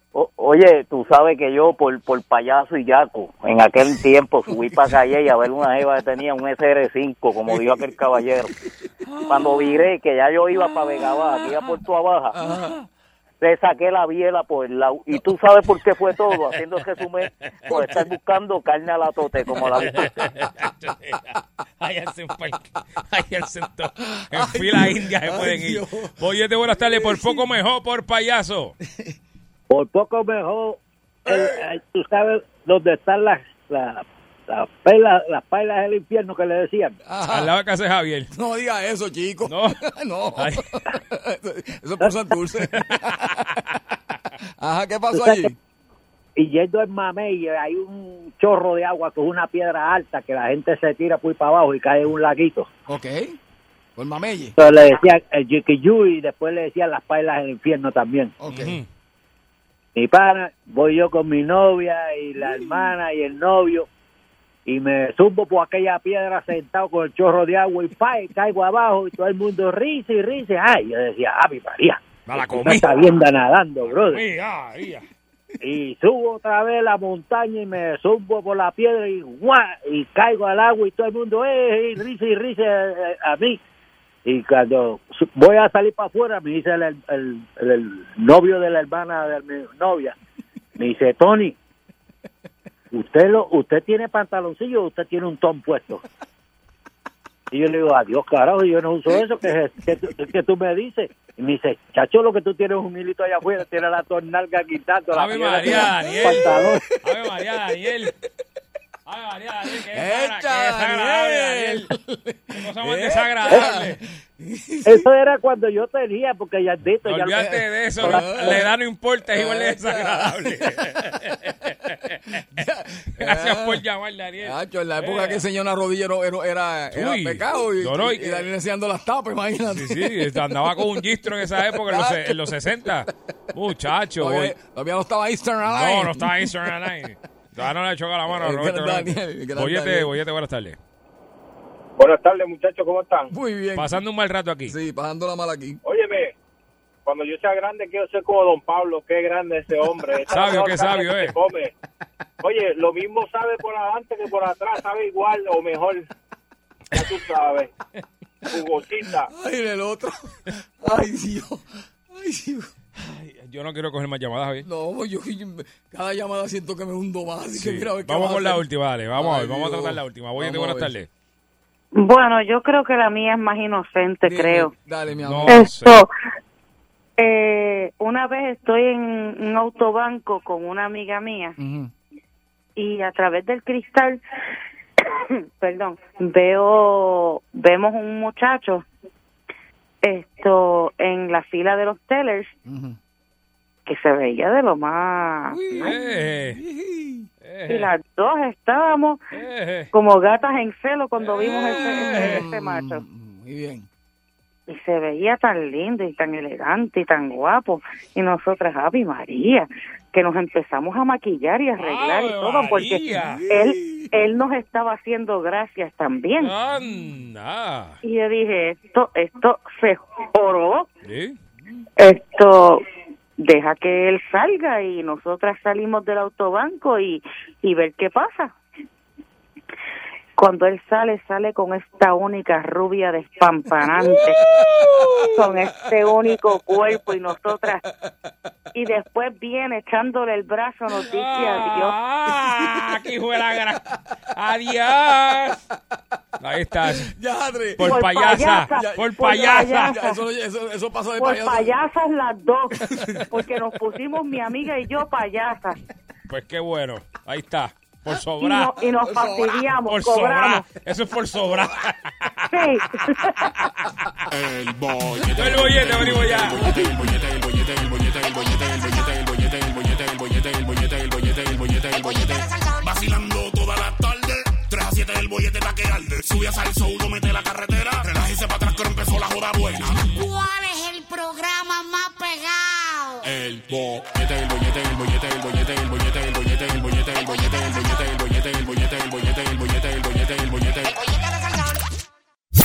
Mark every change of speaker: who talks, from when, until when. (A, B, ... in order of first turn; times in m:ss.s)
0:00.1-0:08.5 A
0:09.2-0:12.3 A
0:12.4-0:12.8 B
0:13.4-0:20.1 A
0:19.8-0:28.7 C
0:24.2-0:26.1 B
0:26.8-0:27.4 B
0:29.7-0:37.0 D
0:31.2-0:31.6 B
0:37.0-0:37.5 B
0:37.2-0:38.3 C
0:38.3-0:43.6 B
0:39.5-0:39.8 C
0:40.4-0:40.7 C
0:44.6-0:45.6 B
0:45.1-0:45.4 D
0:46.4-0:52.7 D
0:52.9-0:53.4 B
0:54.0-0:54.6 B
0:54.6-0:58.3 D
0:58.4-0:58.8 B
0:58.5-0:58.8 C
1:00.0-1:03.9 D
1:02.5-1:02.8 B
1:04.6-1:14.2 D
1:12.2-1:13.0 C
1:13.8-1:15.1 C
1:15.6-1:23.6 D
1:24.2-1:30.1 D
1:30.8-1:31.6 D
1:32.9-1:36.0 D
1:37.5-1:46.8 D
1:45.1-1:48.1 C
1:46.2-1:46.8 B
1:49.1-1:51.9 C
1:49.9-1:55.0 B
1:52.6-1:54.0 C
1:54.8-1:58.3 D
1:57.0-2:02.4 C
1:58.0-1:58.7 B
1:59.3-2:01.1 B
2:02.5-2:03.8 B
2:03.2-2:05.4 C
2:04.4-2:10.6 B
2:06.9-2:08.5 C
2:09.7-2:14.5 C
2:11.7-2:12.4 B
2:14.2-2:16.6 B
2:15.7-2:20.8 C
2:18.3-2:20.1 B
2:22.0-2:23.3 E
2:23.3-2:24.0 B
2:23.7-2:24.8 C
2:24.6-2:25.8 B
2:25.8-2:26.3 E
2:27.0-2:31.7 E
2:30.3-2:31.3 C
2:32.4-2:36.1 E
2:36.9-2:37.7 E
2:38.5-2:39.3 E
2:39.3-2:42.7 B
2:43.0-2:44.7 C
2:44.6-2:50.9 B
2:47.6-2:51.1 C
2:51.9-2:54.7 F
2:54.2-2:55.6 B
2:55.2-2:56.0 C
2:55.5-2:56.1 F
2:57.2-3:01.6 F
3:01.6-3:01.9 B
3:02.8-3:04.2 F
3:05.1-3:08.8 F
3:10.0-3:12.5 F
3:12.7-3:13.0 B
3:13.8-3:15.9 F
3:15.5-3:17.3 B
3:15.8-3:16.6 C
3:17.4-3:17.9 C
3:17.7-3:19.2 F
3:19.3-3:19.9 C
3:19.9-3:23.0 F
3:21.3-3:22.4 C
3:21.9-3:23.9 B
3:24.7-3:36.5 F
3:31.8-3:33.4 C
3:33.3-3:34.1 B
3:36.4-3:38.0 C
3:38.0-3:40.9 F
3:41.0-3:41.4 C
3:42.0-3:42.8 F
3:43.4-3:48.5 F
3:50.4-3:54.4 F
3:54.2-3:55.6 B
3:55.2-3:57.8 F
3:58.7-4:01.9 F
4:00.9-4:05.6 C
4:02.6-4:02.8 B
4:06.4-4:07.1 C
4:06.9-4:11.8 B
4:07.8-4:10.0 C
4:07.8-4:10.2 F
4:11.2-4:15.8 F
4:12.8-4:13.5 B
4:16.3-4:18.8 C
4:18.4-4:20.7 F
4:19.0-4:19.7 B
4:19.8-4:22.6 C
4:22.5-4:23.5 F
4:24.3-4:40.1 G
4:25.3-4:26.8 C
4:32.0-4:32.9 H
4:40.0-4:43.2 H
4:43.2-4:51.0 G
4:50.8-4:51.8 H